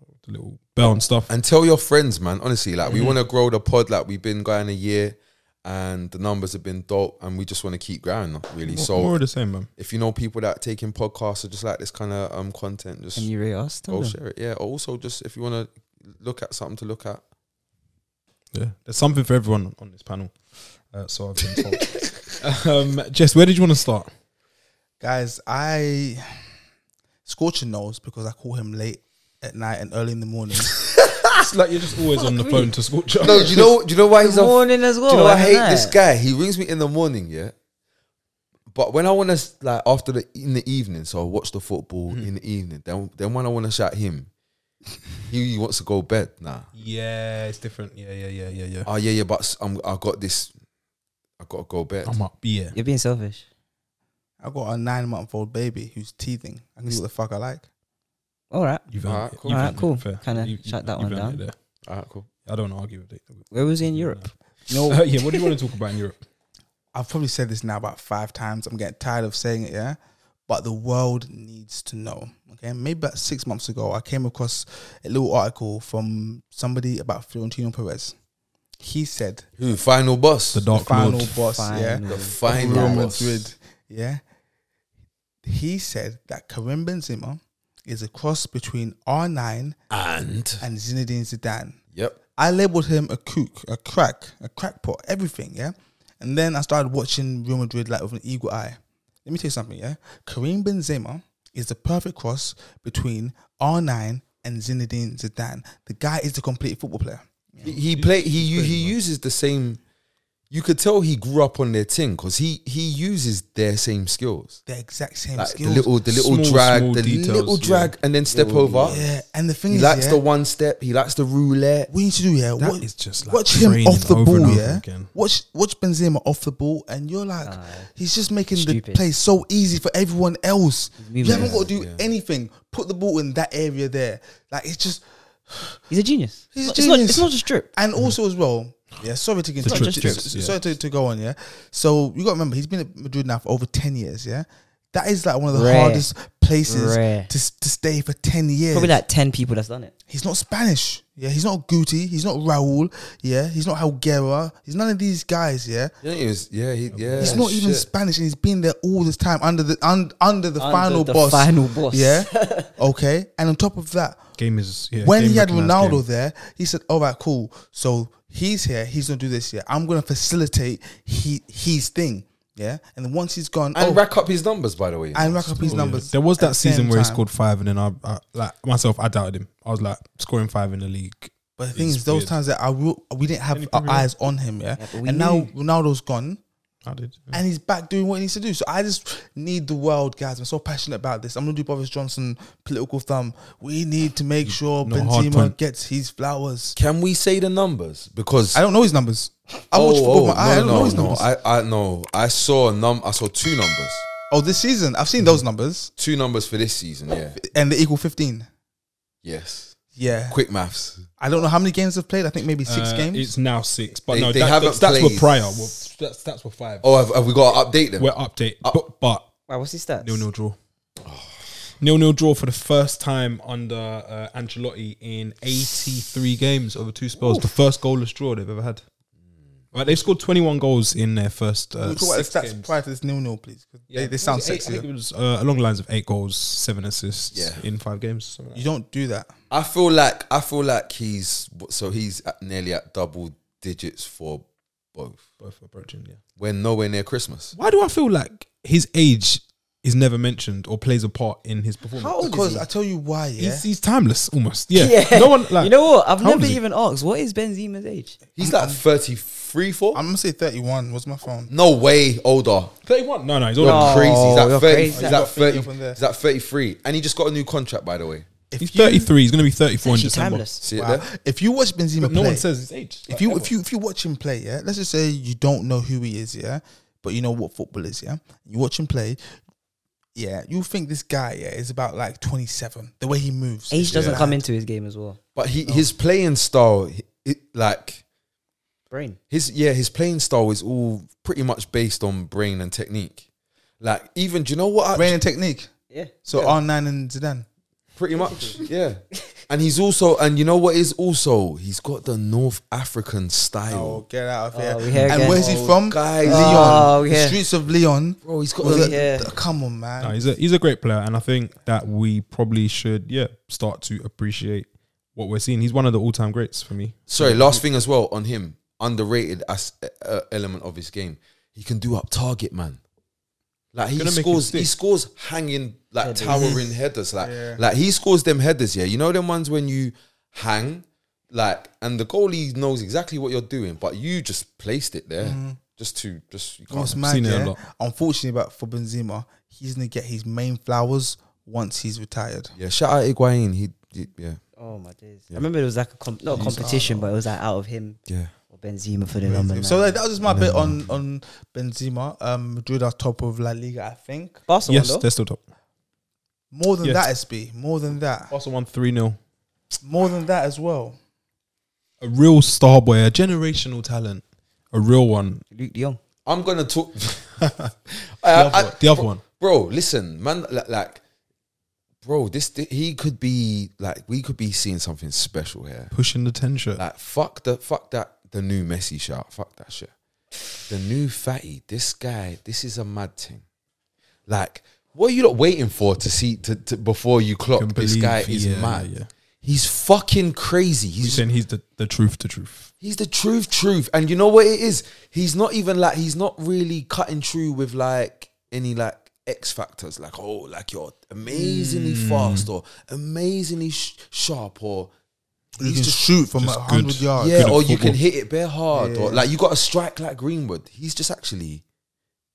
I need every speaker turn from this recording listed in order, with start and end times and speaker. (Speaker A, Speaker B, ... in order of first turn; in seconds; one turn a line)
Speaker A: 0.2-1.3
Speaker B: 1.3-9.2
Speaker A: 2.9-3.2
Speaker A: 8.7-9.7
Speaker B: 9.8-13.3
Speaker C: 13.2-14.2
Speaker B: 13.9-17.2
Speaker A: 18.5-20.4
Speaker A: 20.9-24.1
Speaker C: 21.8-22.1
Speaker D: 25.0-26.4
Speaker D: 27.3-30.8
Speaker C: 31.1-31.4
Speaker A: 31.4-33.7
Speaker C: 32.1-32.7
Speaker B: 33.2-37.5
Speaker C: 34.2-36.0
Speaker B: 38.7-44.3
Speaker B: 45.2-46.7
Speaker A: 46.8-48.9
Speaker B: 48.9-50.5
Speaker B: 51.4-52.2
Speaker A: 52.1-52.8
Speaker C: 52.7-53.5
Speaker D: 54.4-57.6
Speaker C: 58.5-58.8
Speaker A: 58.9-61.5
Speaker B: 59.0-59.9
Speaker C: 59.5-61.4
Speaker B: 61.9-62.3
Speaker A: 62.5-66.2
Speaker C: 63.5-64.3
Speaker D: 64.7-65.0
Speaker D: 66.9-78.2
Speaker D: 78.8-79.5
Speaker B: 79.6-80.7
Speaker A: 80.5-81.3
Speaker D: 80.7-84.2
Speaker C: 81.5-83.0
Speaker B: 82.0-83.5
Speaker D: 85.5-89.8
Speaker B: 89.9-90.6
Speaker D: 90.6-91.8
Speaker D: 92.4-107.7
Speaker B: 107.6-109.8
Speaker A: 107.6-109.0
Speaker B: 110.5-114.6
Speaker D: 114.7-115.9
Speaker B: 115.4-119.0
Speaker A: 116.1-117.9
Speaker C: 118.3-119.2
Speaker D: 118.8-120.2
Speaker B: 119.7-121.9
Speaker D: 121.9-135.8
Speaker A: 122.6-125.1
Speaker C: 127.4-127.9
Speaker C: 128.5-129.0
Speaker C: 131.0-131.7
Speaker B: 131.2-132.0
Speaker C: 135.9-137.7
Speaker D: 136.5-149.0
Speaker A: 139.6-140.6
Speaker C: 139.7-140.3
Speaker C: 145.5-146.1
Speaker C: 146.7-147.3
Speaker C: 148.7-149.9
Speaker D: 150.1-155.9
Speaker B: 156.0-157.9
Speaker A: 156.9-157.4
Speaker D: 157.2-164.2
Speaker C: 160.6-162.7
Speaker A: 164.4-166.0
Speaker D: 165.0-174.0
Speaker B: 173.8-176.0
Speaker D: 175.1-177.2
Speaker A: 175.6-182.3
Speaker D: 181.6-186.4
Speaker A: 183.5-184.1
Speaker C: 184.8-185.5
Speaker A: 186.9-187.4
Speaker D: 187.3-196.8
Speaker A: 194.4-195.6
Speaker B: 196.8-198.6
Speaker D: 198.5-201.3
Speaker B: 199.7-204.1
Speaker D: 204.3-205.9
Speaker B: 206.0-207.4
Speaker D: 207.4-208.5
Speaker B: 209.2-209.8
Speaker D: 210.0-210.4
Speaker B: 210.3-211.1
Speaker D: 211.2-213.3
Speaker A: 212.7-217.0
Speaker B: 214.1-215.4
Speaker B: 216.8-218.1
Speaker A: 218.0-219.3
Speaker C: 219.5-220.2
Speaker A: 220.0-220.6
Speaker B: 221.0-221.4
Speaker A: 221.8-228.8
Speaker A: 229.7-232.8
Speaker D: 231.8-234.9
Speaker A: 233.9-238.7
Speaker B: 237.3-237.6
Speaker D: 238.6-239.3
Speaker B: 239.5-244.4
Speaker B: 244.9-245.2
Speaker A: 245.4-246.2
Speaker B: 246.4-247.5
Speaker A: 247.6-252.6
Speaker C: 252.0-252.6
Speaker D: 252.0-253.7
Speaker A: 253.4-256.6
Speaker C: 254.7-258.2
Speaker B: 258.4-260.0
Speaker D: 258.4-258.8
Speaker D: 259.9-261.5
Speaker B: 261.5-262.8
Speaker A: 262.8-264.2
Speaker B: 263.6-268.3
Speaker C: 263.6-265.2
Speaker A: 264.9-265.2
Speaker D: 264.9-266.0
Speaker D: 268.5-269.1
Speaker A: 268.6-270.4
Speaker C: 269.8-270.6
Speaker B: 270.6-271.1
Speaker D: 270.7-272.4
Speaker A: 272.0-273.5
Speaker D: 273.1-279.2
Speaker D: 280.1-284.4
Speaker C: 283.7-285.2
Speaker B: 283.8-284.2
Speaker B: 285.4-288.0
Speaker C: 288.9-289.2
Speaker B: 289.3-293.2
Speaker B: 293.8-295.2
Speaker D: 294.9-295.7
Speaker C: 295.9-296.6
Speaker D: 296.2-297.5
Speaker B: 298.0-304.0
Speaker C: 298.2-298.6
Speaker D: 303.7-310.2
Speaker C: 304.5-305.7
Speaker B: 305.3-306.9
Speaker C: 306.2-307.4
Speaker B: 308.2-309.1
Speaker C: 308.7-309.3
Speaker A: 310.0-317.6
Speaker B: 317.1-322.8
Speaker B: 323.7-337.0
Speaker A: 324.0-324.7
Speaker C: 326.0-326.5
Speaker D: 326.2-327.6
Speaker D: 335.2-335.6
Speaker D: 336.7-342.5
Speaker A: 337.0-337.6
Speaker B: 342.6-344.4
Speaker C: 344.6-348.0
Speaker D: 346.3-347.1
Speaker C: 348.5-350.0
Speaker D: 349.2-354.4
Speaker A: 350.2-350.9
Speaker C: 354.5-355.1
Speaker A: 354.7-355.4
Speaker D: 356.5-358.3
Speaker A: 358.3-359.2
Speaker D: 359.8-361.0
Speaker A: 362.0-365.4
Speaker C: 365.5-366.0
Speaker B: 366.3-367.4
Speaker A: 367.4-367.7
Speaker B: 368.2-371.0
Speaker A: 368.3-369.2
Speaker B: 372.0-375.9
Speaker A: 375.9-376.8
Speaker B: 376.8-379.9
Speaker B: 380.6-383.4
Speaker B: 384.3-388.9
Speaker A: 387.6-389.1
Speaker B: 389.4-391.2
Speaker A: 391.0-392.7
Speaker B: 392.8-404.9
Speaker A: 401.3-402.5
Speaker D: 405.6-407.5
Speaker A: 406.4-408.0
Speaker B: 407.2-411.6
Speaker D: 408.7-409.3